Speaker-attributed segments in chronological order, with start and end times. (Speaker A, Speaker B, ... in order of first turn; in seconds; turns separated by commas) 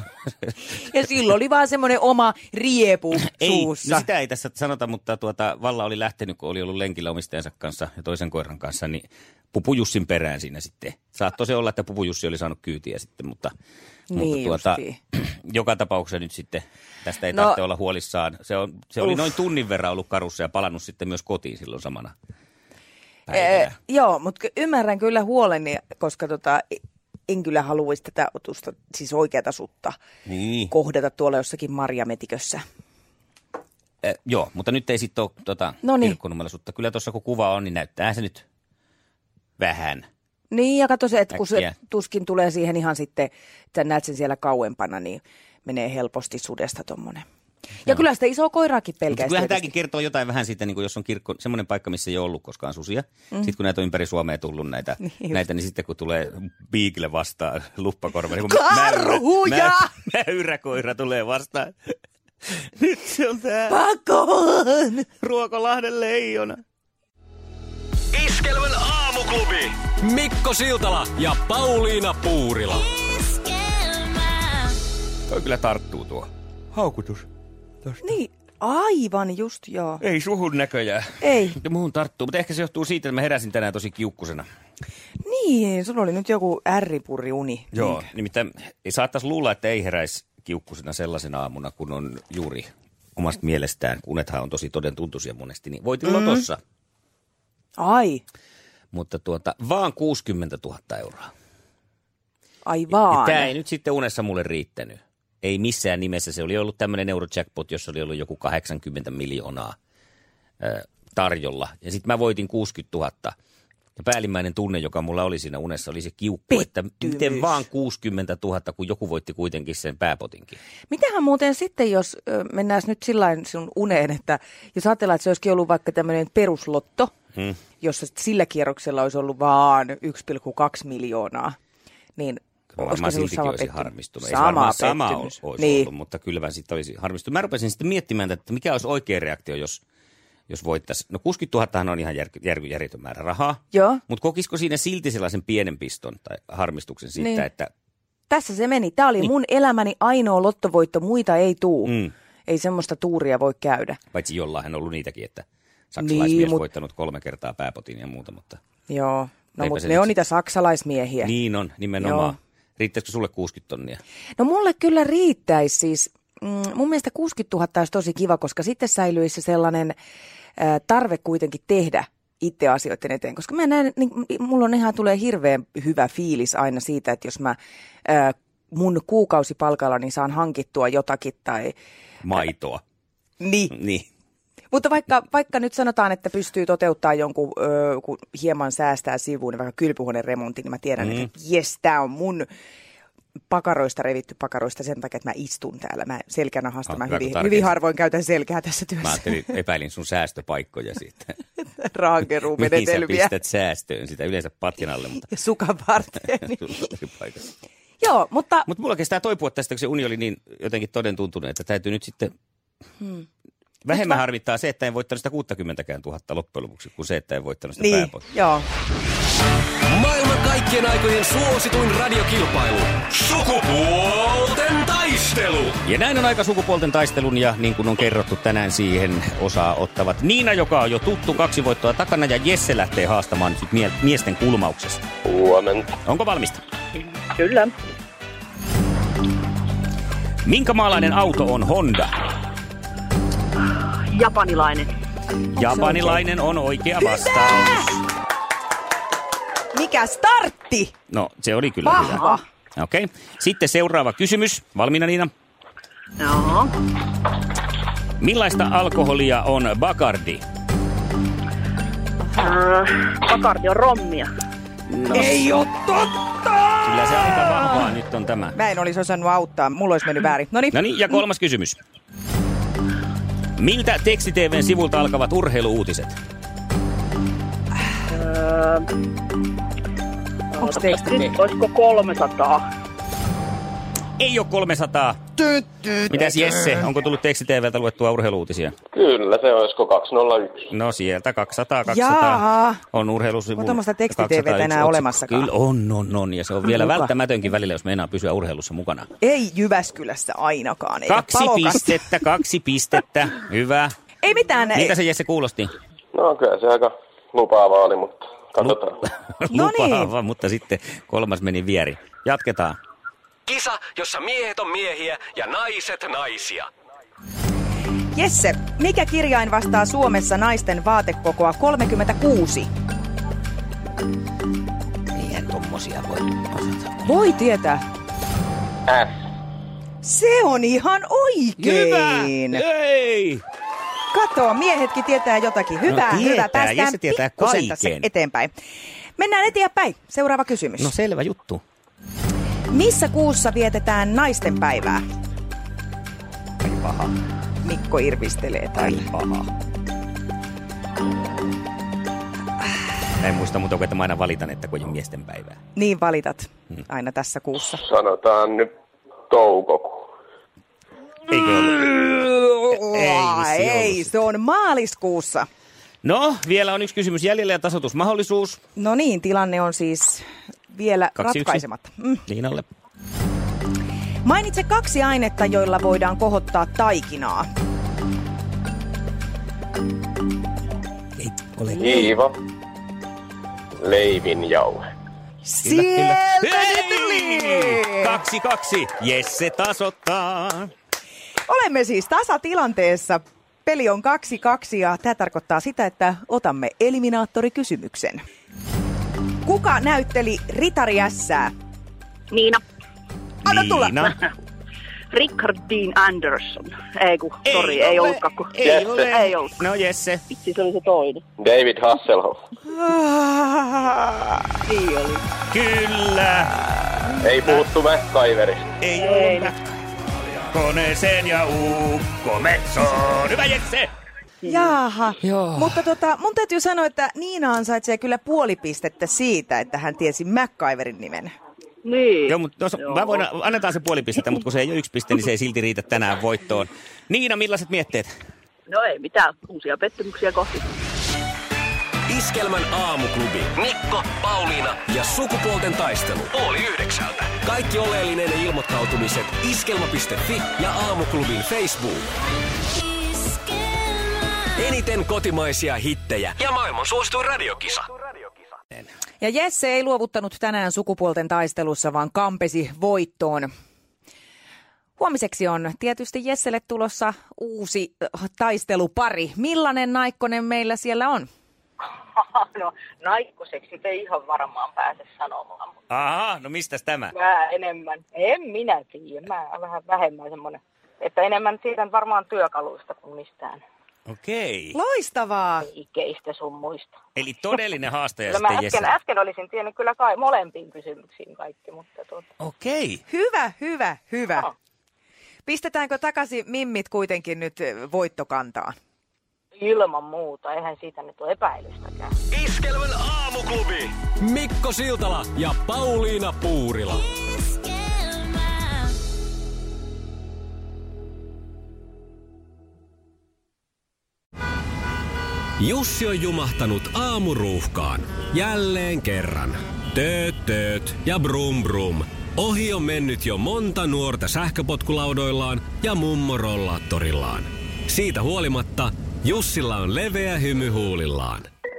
Speaker A: 0.7-4.1, Speaker B: 3.2-13.5, Speaker A: 14.1-15.0, Speaker B: 14.1-22.1, Speaker A: 17.3-17.6, Speaker B: 23.3-23.7, Speaker A: 23.3-30.0, Speaker B: 30.3-30.6, Speaker A: 30.6-32.6, Speaker B: 34.0-38.5, Speaker A: 35.8-36.2, Speaker B: 39.6-40.1, Speaker A: 40.5-47.2, Speaker B: 41.3-41.7, Speaker A: 47.8-49.7, Speaker B: 49.1-62.0, Speaker A: 55.1-55.4, Speaker A: 58.4-59.9, Speaker B: 62.5-63.8, Speaker A: 63.7-65.0, Speaker B: 65.0-66.6, Speaker C: 68.1-72.9, Speaker B: 75.3-77.3, Speaker A: 78.0-80.0, Speaker B: 80.0-84.5, Speaker A: 81.2-81.6, Speaker A: 85.2-88.1, Speaker B: 87.7-96.6, Speaker A: 96.1-96.4, Speaker A: 97.8-98.2, Speaker B: 98.9-101.3, Speaker A: 102.7-103.5, Speaker B: 102.9-109.8, Speaker B: 110.6-113.3, Speaker B: 114.0-120.6, Speaker A: 116.5-117.5, Speaker A: 120.9-127.1, Speaker A: 127.8-131.6, Speaker A: 132.2-135.9, Speaker B: 132.7-139.8, Speaker B: 140.5-147.7, Speaker A: 143.7-144.0, Speaker A: 147.2-147.4, Speaker A: 148.3-154.0, Speaker B: 151.8-152.1, Speaker B: 154.1-158.6, Speaker A: 156.0-156.6, Speaker A: 158.9-161.3, Speaker B: 159.6-160.1, Speaker B: 161.2-164.0, Speaker A: 162.0-162.3, Speaker A: 164.4-170.0, Speaker A: 170.6-181.8, Speaker B: 182.2-182.8, Speaker A: 183.4-183.8, Speaker B: 183.7-184.1, Speaker A: 184.7-192.5, Speaker B: 191.0-191.3, Speaker A: 193.5-199.6, Speaker B: 196.9-197.8, Speaker B: 199.0-201.4, Speaker A: 201.7-203.3, Speaker B: 202.5-205.3, Speaker A: 205.3-206.9, Speaker B: 206.5-207.5, Speaker A: 208.0-208.7, Speaker B: 208.7-212.3, Speaker A: 213.0-213.2, Speaker B: 213.8-218.3, Speaker A: 213.9-214.2, Speaker A: 217.8-218.7, Speaker C: 219.9-225.8, Speaker B: 225.8-235.0, Speaker D: 235.2-236.0, Speaker B: 236.1-236.6, Speaker E: 237.3-237.8, Speaker B: 240.4-242.2, Speaker E: 244.1-244.9, Speaker B: 245.5-248.0, Speaker A: 245.6-246.2, Speaker A: 249.7-250.9, Speaker B: 251.1-255.3, Speaker A: 251.8-252.4, Speaker E: 256.2-256.7, Speaker B: 258.2-260.4, Speaker E: 262.4-264.3, Speaker B: 264.9-265.5, Speaker A: 265.1-267.9, Speaker B: 266.8-268.6, Speaker A: 268.6-270.9, Speaker B: 270.7-271.8, Speaker B: 273.6-276.2, Speaker E: 278.1-278.9, Speaker E: 280.6-282.7, Speaker A: 280.6-281.4, Speaker B: 284.2-285.2, Speaker A: 285.5-286.0, Speaker B: 286.1-288.8, Speaker D: 288.9-290.7, Speaker B: 290.7-299.1, Speaker A: 291.9-292.8, Speaker A: 293.6-295.5, Speaker A: 296.7-297.1, Speaker A: 299.2-302.0, Speaker B: 301.1-303.9, Speaker A: 304.2-305.0, Speaker B: 304.7-305.7, Speaker D: 306.1-309.0, Speaker B: 309.3-312.8, Speaker A: 309.5-310.1, Speaker C: 313.5-316.7, Speaker A: 318.1-322.7, Speaker B: 325.1-327.1, Speaker A: 327.0-327.9, Speaker D: 328.9-329.1, Speaker A: 330.0-332.6, Speaker B: 331.6-333.4, Speaker A: 334.1-338.5, Speaker B: 335.9-338.1, Speaker A: 339.2-340.9, Speaker B: 340.8-341.6, Speaker A: 342.7-345.0, Speaker B: 346.6-347.1, Speaker A: 347.6-349.1, Speaker B: 348.8-349.5, Speaker B: 353.2-355.6, Speaker A: 355.8-357.8, Speaker D: 357.8-358.7, Speaker D: 359.3-360.1, Speaker B: 361.3-364.2, Speaker A: 361.7-365.5, Speaker B: 366.0-368.6, Speaker A: 368.8-372.2, Speaker B: 371.2-371.6, Speaker B: 372.3-372.7, Speaker A: 374.2-377.5, Speaker B: 381.2-382.1, Speaker D: 381.8-382.4, Speaker D: 383.8-384.8, Speaker A: 385.4-388.2, Speaker B: 385.6-390.7, Speaker A: 391.5-398.2, Speaker A: 399.4-401.5, Speaker E: 402.3-402.6, Speaker B: 403.4-404.2, Speaker E: 405.1-409.6, Speaker B: 407.4-410.2, Speaker D: 408.6-409.2, Speaker E: 410.3-411.2, Speaker D: 411.4-412.4, Speaker A: 412.7-414.2, Speaker E: 414.6-415.2, Speaker B: 415.5-416.6, Speaker D: 417.2-418.7, Speaker B: 418.8-419.7, Speaker E: 418.9-419.5, Speaker B: 420.4-423.9, Speaker E: 424.4-424.8, Speaker A: 424.5-431.3, Speaker B: 425.3-425.7, Speaker E: 431.8-433.2, Speaker B: 432.3-438.1, Speaker E: 438.7-440.6, Speaker C: 442.1-452.1, Speaker C: 454.5-457.9, Speaker A: 459.2-463.5, Speaker A: 465.0-471.3, Speaker F: 472.2-475.7, Speaker B: 475.9-477.1, Speaker F: 477.1-483.6, Speaker B: 484.1-484.8, Speaker A: 484.7-485.7, Speaker F: 485.6-486.9, Speaker B: 487.2-488.9, Speaker F: 488.3-492.3, Speaker B: 492.4-493.0, Speaker A: 493.1-494.5, Speaker A: 495.5-498.8, Speaker F: 499.6-502.1, Speaker C: 502.3-507.1, Speaker C: 515.6-531.5